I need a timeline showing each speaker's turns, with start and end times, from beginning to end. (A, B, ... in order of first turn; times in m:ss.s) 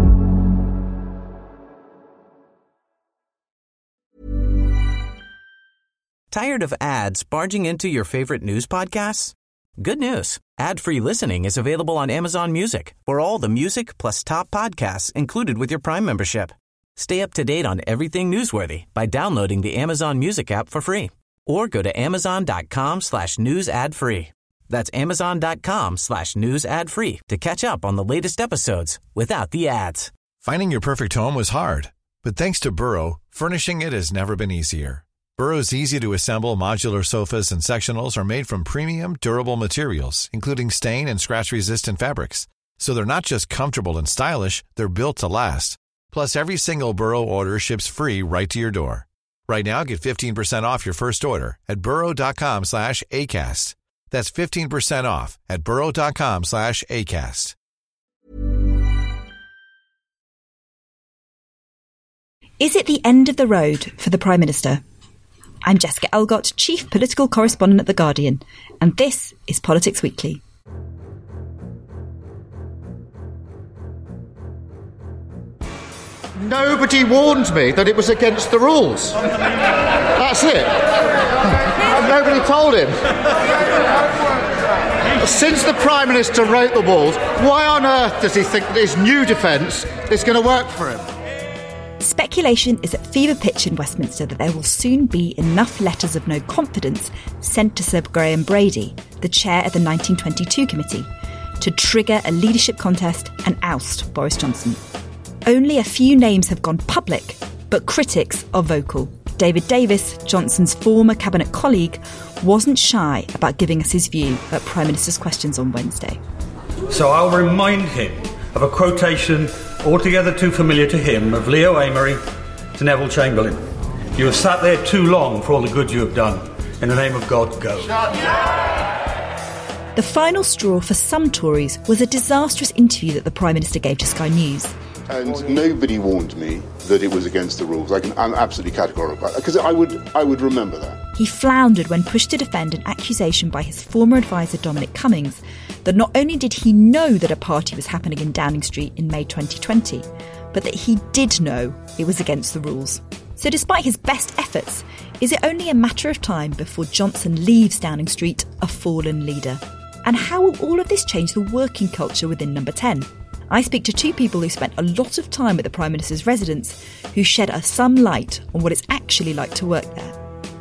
0:06.3-0:30.1 A
0:30.4-0:57.5 B
1:02.6-1:04.8 C
1:05.6-1:10.4 C
1:16.4-1:19.2 D
1:20.1-1:20.8 D
1:21.4-1:23.0 D
1:25.2-1:31.1 D
1:32.0-1:41.1 C
1:41.6-1:44.8 C
1:45.4-1:56.2 C
1:56.9-2:02.2 E
2:02.8-2:03.6 E
2:04.1-2:08.1 E
2:09.9-2:14.7 C
2:15.1-2:21.0 F
2:21.2-2:50.2 C